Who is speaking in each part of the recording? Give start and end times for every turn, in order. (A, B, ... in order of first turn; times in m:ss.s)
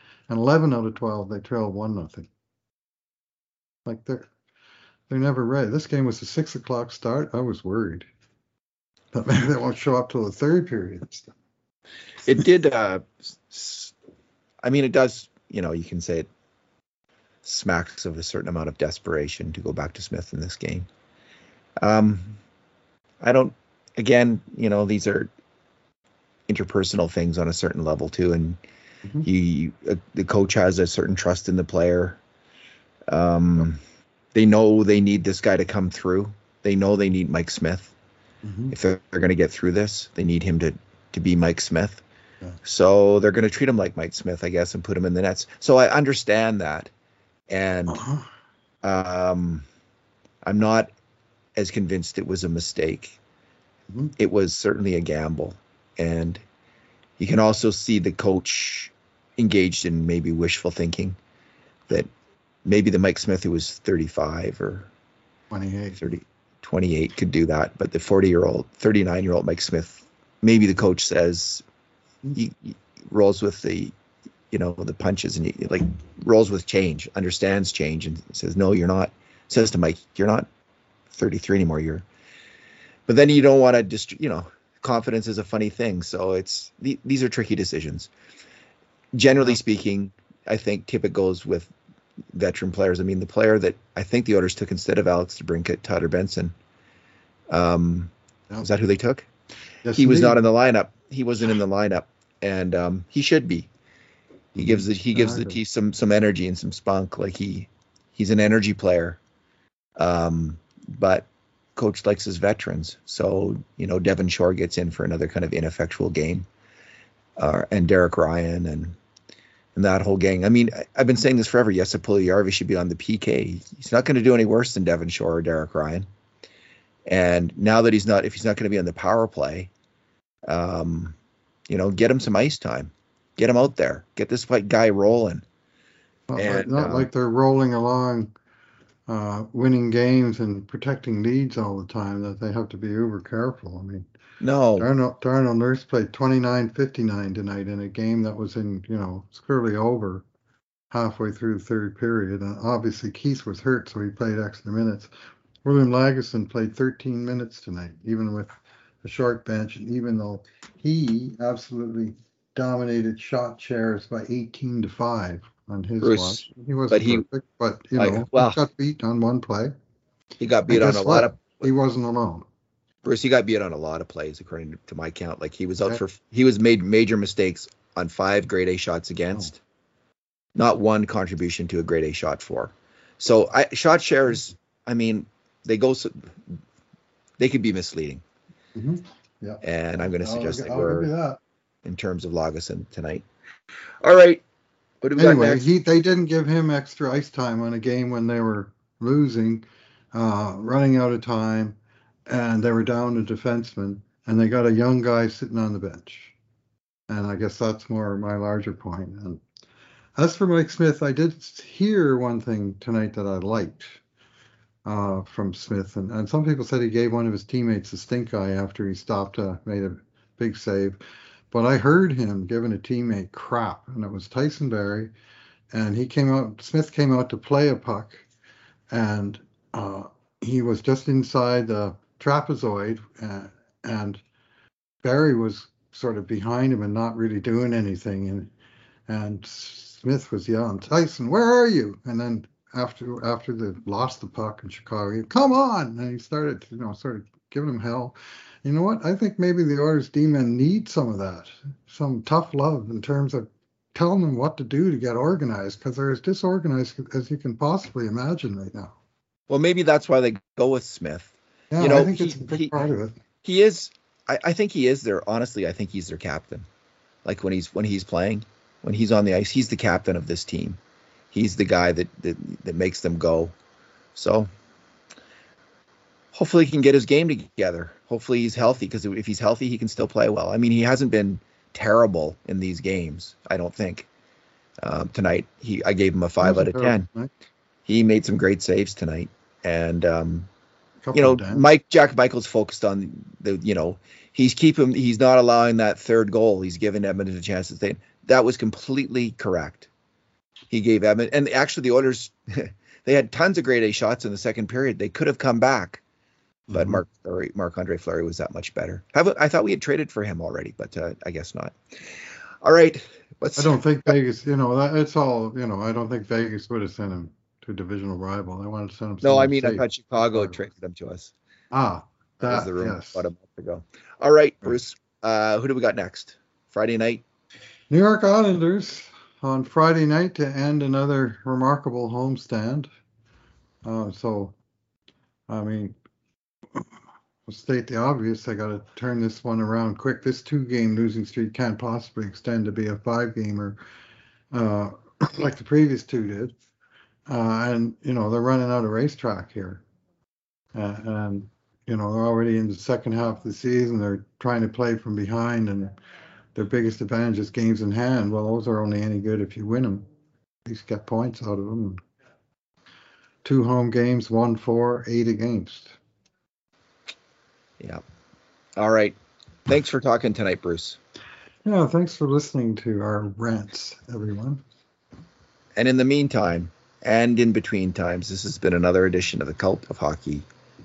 0:00.3-0:02.3 A
0:03.8-0:04.3 A
0:05.1-0:08.1 A
0:09.1-0:11.3 A
0:12.2-0:13.9 B
0:14.6-0:16.3 B
0:17.4-0:20.9 B
0:21.8-0:22.4 B
0:23.2-0:25.3 B
0:26.5-0:28.6 B
0:29.2-0:32.2 B
0:33.1-0:33.8 B
0:34.3-0:37.9 B
0:38.4-0:38.7 A
0:38.7-0:42.0 B
0:42.6-0:46.9 B
0:47.5-0:48.0 B
0:47.9-0:48.3 A
0:48.8-0:49.6 B
0:50.4-0:50.9 B
0:51.6-0:53.2 B
0:54.2-0:56.4 B
0:57.2-1:01.2 B
1:02.6-1:04.9 B
1:05.5-1:06.0 A
1:06.0-1:11.6 B
1:12.3-1:13.9 B
1:14.5-1:20.5 B
1:21.1-1:22.0 B
1:23.1-1:28.1 B
1:29.1-1:31.7 B
1:32.3-1:36.5 B
1:37.5-1:39.2 B
1:39.8-1:40.4 A
1:39.9-1:43.7 B
1:44.5-1:45.6 A
1:44.6-1:49.2 B
1:50.0-1:56.4 B
1:57.4-1:59.0 B
1:59.7-2:06.0 B
2:07.1-2:09.7 B
2:10.4-2:11.2 B
2:11.7-2:15.4 B
2:16.3-2:18.3 A
2:16.4-2:17.1 B
2:19.1-2:24.0 A
2:24.4-2:24.9 B
2:24.8-2:30.2 A
2:30.9-2:35.1 A
2:35.6-2:49.7 A
2:46.0-2:47.2 B
2:48.0-2:48.6 B
2:50.4-2:51.7 B
2:50.7-2:52.4 A
2:53.0-2:59.6 B
3:00.5-3:06.6 B
3:07.4-3:08.2 B
3:08.8-3:09.6 A
3:09.6-3:11.1 B
3:10.2-3:11.4 A
3:11.8-3:13.2 B
3:14.0-3:14.4 B
3:15.0-3:15.7 B
3:15.2-3:21.8 A
3:22.3-3:26.3 A
3:27.1-3:29.4 A
3:30.2-3:34.0 A
3:34.8-3:41.0 A
3:41.5-3:45.1 A
3:45.7-3:48.2 A
3:48.9-3:54.2 A
3:55.0-3:58.5 A
3:59.1-4:18.9 A
4:19.5-4:22.8 B
4:21.7-4:23.1 A
4:23.4-4:26.6 B
4:27.2-4:30.8 B
4:31.3-4:33.5 B
4:34.1-4:34.5 B
4:36.3-4:44.1 B
4:44.8-4:47.1 B
4:46.4-4:47.3 A
4:47.8-4:50.5 B
4:51.0-4:51.6 A
4:51.1-4:59.9 B
5:00.7-5:06.0 B
5:06.7-5:07.0 A
5:06.7-5:11.8 B
5:12.6-5:13.8 B
5:13.6-5:20.6 A
5:19.2-5:21.3 B
5:21.7-5:23.2 A
5:22.4-5:27.2 B
5:27.9-5:32.9 A
5:33.8-5:34.6 A
5:35.5-5:36.0 A
5:37.5-5:43.8 A
5:44.5-5:46.5 A
5:47.3-5:49.8 A
5:50.7-5:55.9 A
5:56.5-6:00.0 A
6:00.7-6:02.0 A
6:03.4-6:06.0 A
6:08.8-6:11.0 B
6:11.6-6:14.6 A
6:15.8-6:20.4 B